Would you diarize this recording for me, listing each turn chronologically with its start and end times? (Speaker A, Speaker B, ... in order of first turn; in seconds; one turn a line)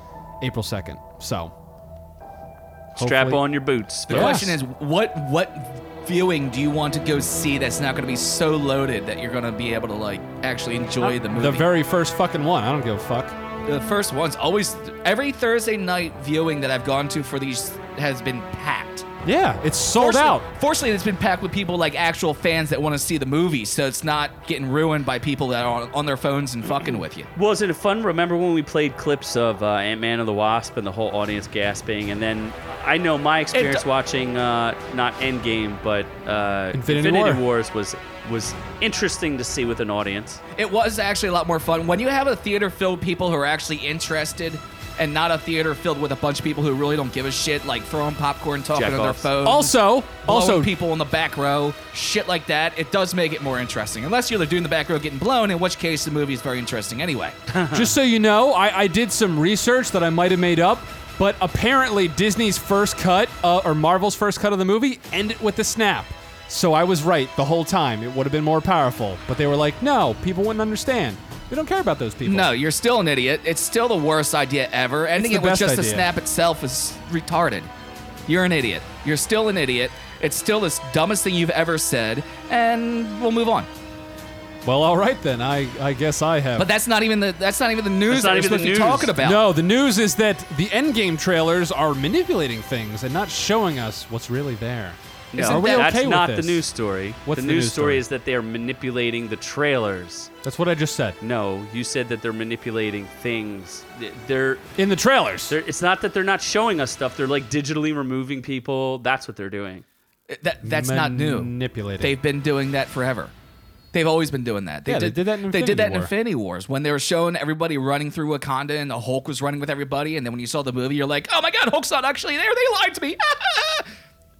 Speaker A: 0.4-1.5
Speaker B: 3.0-4.5
Speaker A: 3.0-3.5
Speaker A: 4.1-4.6
Speaker C: 4.1-11.7
Speaker A: 11.0-13.3
Speaker C: 13.7-19.1
Speaker A: 19.2-20.4
Speaker C: 20.0-27.3
Speaker B: 27.4-40.4
Speaker C: 33.5-33.8
Speaker A: 36.7-37.4
Speaker C: 40.5-57.4
Speaker B: 48.8-49.3
Speaker A: 49.4-50.7
Speaker B: 57.5-57.9
Speaker A: 57.7-72.5
Speaker C: 72.2-77.7
Speaker A: 75.2-76.1
Speaker C: 78.3-83.7
Speaker A: 84.7-86.7
Speaker C: 86.6-89.4
Speaker B: 88.1-89.1
Speaker A: 89.2-96.7
Speaker B: 95.3-100.3
Speaker C: 95.3-95.9
Speaker A: 97.3-98.0
Speaker A: 100.4-101.2
Speaker B: 101.2-104.7
Speaker A: 104.8-105.6
Speaker B: 105.5-109.8
Speaker C: 110.3-113.3
Speaker A: 110.6-112.2
Speaker C: 113.9-123.9
Speaker A: 114.9-116.1